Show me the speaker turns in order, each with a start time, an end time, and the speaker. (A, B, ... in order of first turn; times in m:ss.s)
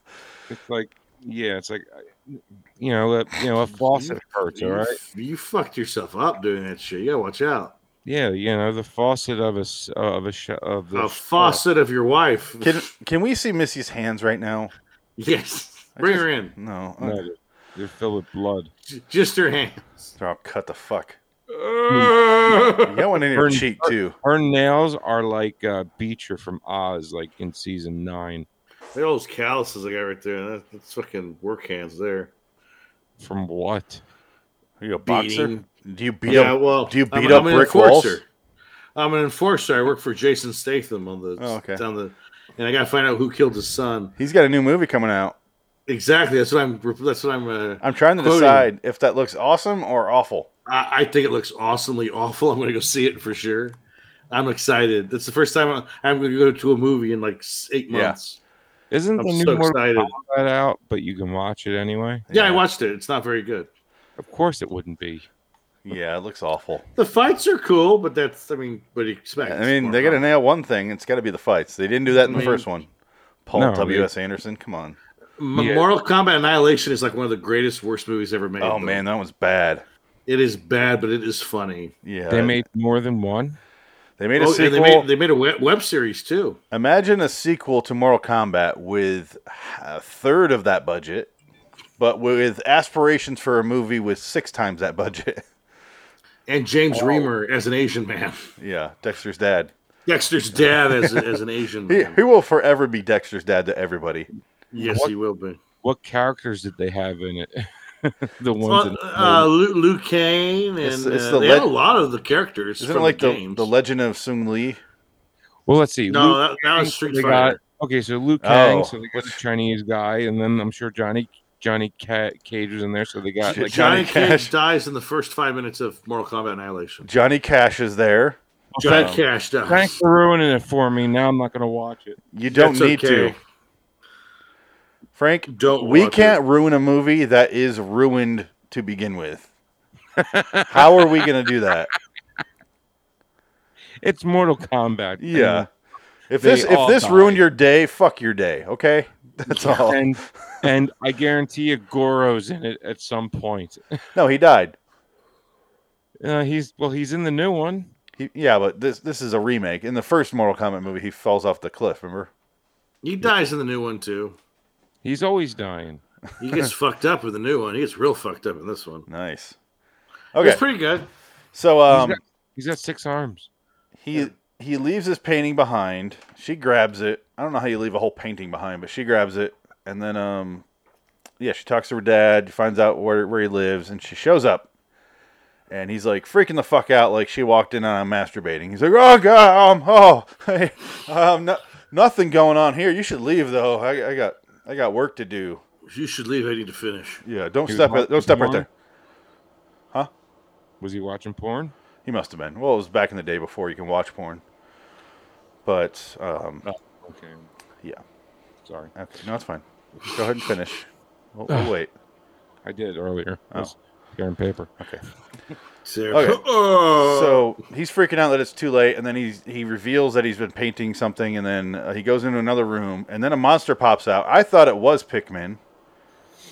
0:00.5-0:05.0 A
0:03.9-0:07.7 B
0:08.0-0:11.6 A
0:10.9-0:12.9 B
0:12.6-0:14.7 C
0:15.2-0:16.5 B
0:16.0-0:17.2 C
0:17.0-0:18.7 A
0:18.9-0:20.1 B
0:20.2-0:21.2 C
0:21.5-0:23.0 B
0:21.9-0:22.6 A
0:22.8-0:24.2 C
0:23.3-0:28.5 A
0:28.9-0:32.3 B
0:33.2-0:34.0 A
0:34.8-0:38.2 C
0:35.0-0:35.6 B
0:36.2-0:38.2 B
0:39.0-0:44.1 B
0:41.4-0:41.8 C
0:44.2-0:45.4 C
0:45.9-0:48.7 B
0:47.8-0:50.5 C
0:50.7-0:53.8 B
0:54.3-0:58.4 B
0:57.9-0:58.2 C
0:58.9-1:02.3 A
0:59.2-1:00.1 B
1:02.3-1:02.6 C
1:02.3-1:03.7 B
1:04.2-1:05.3 A
1:05.8-1:06.8 C
1:07.0-1:10.2 B
1:09.4-1:12.9 C
1:12.2-1:12.6 B
1:13.4-1:15.0 C
1:13.5-1:14.1 A
1:15.4-1:19.0 B
1:15.5-1:15.8 A
1:18.6-1:19.8 C
1:20.3-1:21.9 B
1:22.0-1:22.6 C
1:22.3-1:23.6 A
1:24.2-1:25.1 C
1:24.4-1:26.6 B
1:26.7-1:31.3 C
1:32.0-1:35.4 C
1:36.5-1:38.5 B
1:37.0-1:37.2 C
1:38.6-1:39.7 C
1:40.1-1:42.2 B
1:41.9-1:44.3 C
1:44.7-1:45.6 B
1:44.8-1:45.1 A
1:45.8-1:49.5 A
1:48.6-1:53.7 B
1:50.8-1:51.7 C
1:52.8-1:54.8 C
1:55.7-2:03.8 A
1:56.1-1:57.6 B
1:58.4-1:59.4 C
2:03.4-2:04.5 C
2:03.4-2:07.1 B
2:07.0-2:09.2 C
2:08.8-2:09.2 A
2:08.8-2:10.0 B
2:09.7-2:12.2 A
2:12.3-2:13.4 C
2:12.5-2:13.4 B
2:15.1-2:19.5 C
2:15.5-2:16.4 B
2:20.2-2:21.2 A
2:20.7-2:21.9 C
2:24.0-2:25.7 A
2:25.2-2:25.7 C
2:26.3-2:30.1 C
2:26.4-2:27.4 A
2:29.5-2:33.9 A
2:34.1-2:34.8 C
2:36.2-2:37.9 A
2:38.2-2:42.3 C
2:43.0-2:44.4 B
2:45.0-2:46.0 A
2:46.4-2:49.1 B
2:49.1-2:49.6 C
2:50.3-2:50.6 C
2:50.4-2:51.1 B
2:51.5-2:52.2 C
2:51.9-2:53.5 A
2:54.0-3:00.6 C
3:01.4-3:04.7 C
3:05.7-3:15.6 C
3:15.9-3:17.2 B
3:17.2-3:18.7 C
3:17.7-3:18.7 A
3:20.8-3:21.7 A
3:22.0-3:24.4 C
3:25.6-3:26.6 C
3:26.6-3:27.5 A
3:28.6-3:28.9 A
3:28.9-3:31.9 C
3:31.5-3:31.7 A
3:32.6-3:34.7 A
3:35.8-3:37.6 B
3:36.1-3:36.4 C
3:36.9-3:45.6 C